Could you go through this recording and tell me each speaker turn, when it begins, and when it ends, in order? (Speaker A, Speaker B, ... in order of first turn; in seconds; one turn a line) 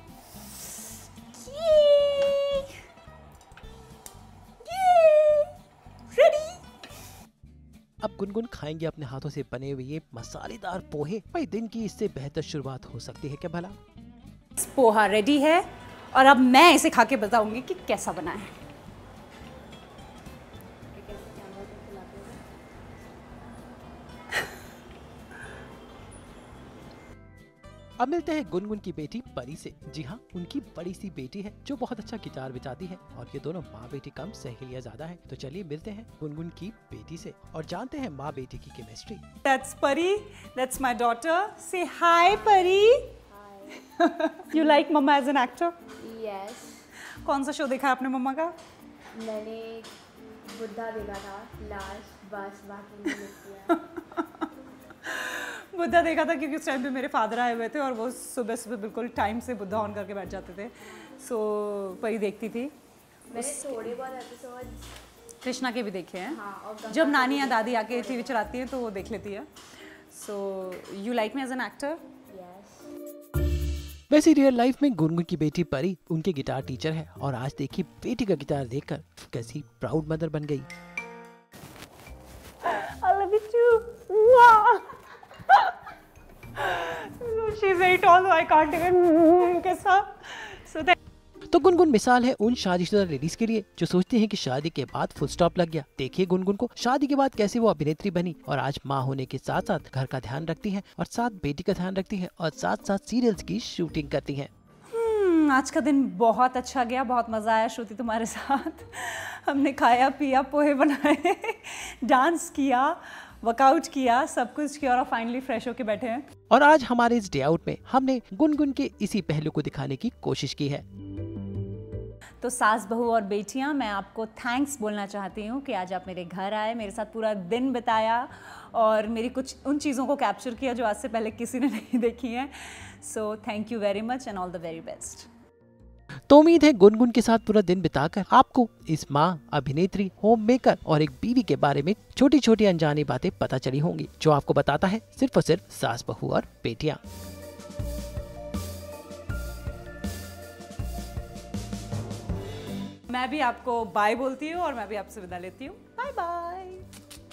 Speaker A: 0.5-2.8
Speaker A: 4.6-5.5
Speaker A: 6.1-6.6
Speaker B: 8.0-13.8
Speaker A: 14.6-18.6
Speaker C: 20.9-22.4
Speaker B: 28.0-39.2
Speaker A: 39.4-43.2
Speaker C: 42.8-43.8
Speaker A: 43.8-45.7
Speaker C: 46.0-46.8
Speaker A: 47.2-48.5
Speaker C: 49.1-49.9
Speaker C: 50.5-53.8
Speaker A: 53.7-54.5
Speaker A: 55.0-62.7
Speaker C: 63.3-64.8
Speaker A: 63.3-63.9
Speaker A: 65.4-69.5
Speaker C: 66.3-68.4
Speaker A: 70.1-72.0
Speaker C: 72.3-72.8
Speaker B: 74.1-80.7
Speaker A: 82.6-85.9
Speaker A: 86.5-90.9
Speaker B: 91.5-104.5
Speaker A: 104.9-116.2
Speaker B: 116.5-120.8
Speaker A: 122.4-135.3
Speaker B: 136.3-147.0
Speaker A: 153.1-156.9